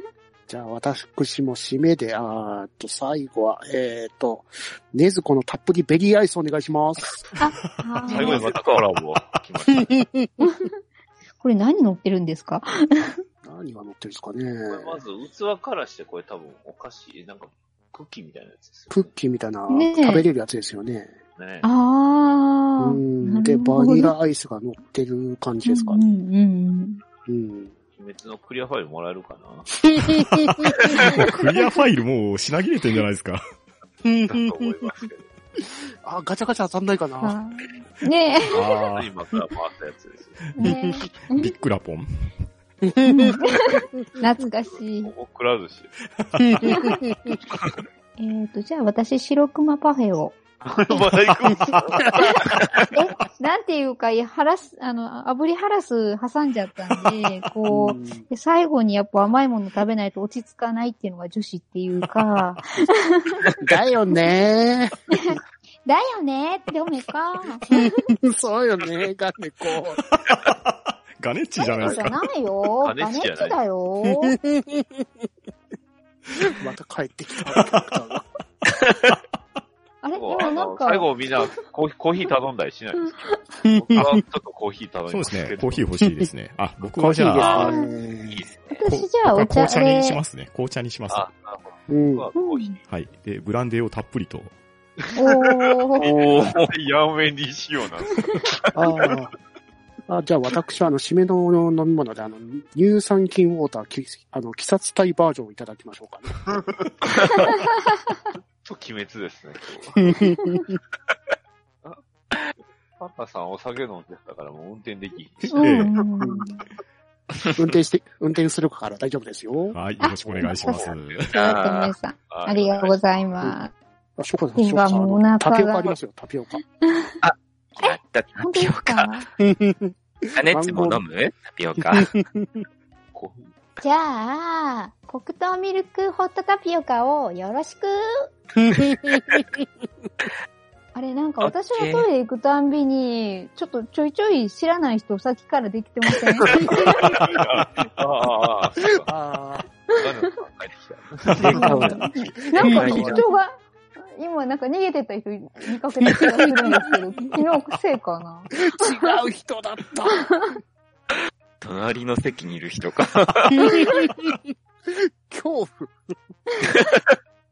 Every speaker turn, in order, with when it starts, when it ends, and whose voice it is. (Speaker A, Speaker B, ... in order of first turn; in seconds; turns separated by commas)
Speaker A: 0.5-7.3, Speaker B: 7.4-8.5, Speaker C: 8.1-10.0, Speaker D: 8.1-8.8, Speaker A: 9.8-10.2, Speaker B: 10.4-10.7, Speaker B: 11.4-13.2, Speaker A: 13.4-15.0, Speaker C: 14.7-19.1, Speaker A: 18.9-21.1, Speaker B: 19.7-20.2, Speaker C: 21.4-21.7, Speaker B: 21.6-24.1, Speaker A: 22.8-26.0, Speaker B: 25.6-27.0, Speaker A: 27.3-27.7, Speaker C: 27.9-29.7, Speaker A: 29.8-30.8, Speaker E: 31.0-33.4, Speaker B: 31.0-31.5, Speaker A: 34.0-34.9, Speaker C: 34.3-35.3, Speaker A: 35.6-37.4, Speaker B: 37.2-38.6, Speaker E: 38.5-39.1, Speaker C: 38.9-40.5, Speaker B: 40.6-41.5, Speaker A: 40.6-41.0, Speaker E: 41.3-42.4, Speaker A: 42.9-43.8, Speaker B: 43.0-45.1, Speaker C: 44.6-46.0, Speaker E: 46.2-46.4, Speaker A: 46.4-47.4, Speaker B: 46.7-47.0, Speaker B: 48.2-50.4, Speaker C: 50.6-52.9, Speaker B: 52.9-63.6, Speaker A: 57.7-58.3, Speaker A: 63.6-65.4, Speaker B: 65.1-67.9, Speaker A: 67.7-70.0, Speaker E: 70.2-72.1, Speaker B: 71.6-74.3, Speaker C: 72.8-73.6, Speaker A: 74.0-75.0, Speaker A: 76.4-78.2, Speaker D: 78.8-79.1, Speaker B: 80.0-81.1, Speaker C: 80.1-85.8, Speaker B: 83.0-83.4, Speaker A: 83.8-84.2, Speaker E: 85.1-87.8, Speaker A: 86.8-88.4, Speaker B: 87.5-88.0, Speaker D: 88.3-88.8, Speaker B: 88.7-90.2, Speaker E: 88.9-91.3, Speaker C: 91.1-92.8, Speaker A: 91.9-92.3, Speaker B: 92.3-92.8, Speaker E: 92.9-94.5, Speaker C: 95.0-98.7, Speaker B: 95.2-96.1, Speaker D: 96.0-96.7, Speaker A: 98.7-99.3, Speaker A: 100.1-106.4, Speaker C: 106.5-107.5, Speaker C: 108.4-110.2, Speaker A: 110.0-110.8, Speaker C: 113.0-115.9, Speaker E: 115.4-115.9, Speaker B: 115.5-116.6, Speaker A: 116.2-116.6, Speaker A: 117.5-119.8, Speaker E: 119.7-121.3, Speaker B: 120.0-120.7, Speaker C: 120.3-121.2, Speaker B: 121.3-123.7, Speaker D: 121.3-121.9, Speaker C: 122.3-123.2, Speaker A: 124.2-126.6, Speaker B: 124.5-126.0, Speaker B: 126.8-127.1, Speaker D: 127.2-129.1, Speaker B: 127.8-129.3, Speaker A: 129.4-131.0, Speaker D: 130.3-132.1, Speaker A: 131.8-132.6, Speaker C: 133.1-133.5, Speaker B: 133.8-138.3, Speaker A: 138.7-139.5, Speaker B: 140.9-147.1, Speaker D: 141.4-142.1, Speaker C: 146.5-149.1, Speaker A: 149.1-149.7, Speaker C: 149.9-153.2, Speaker A: 151.4-153.2, Speaker B: 151.4-159.0, Speaker D: 152.6-153.3, Speaker A: 158.6-160.6, Speaker D: 161.6-163.9, Speaker A: 163.6-164.3, Speaker A: 164.9-166.1, Speaker D: 166.7-167.1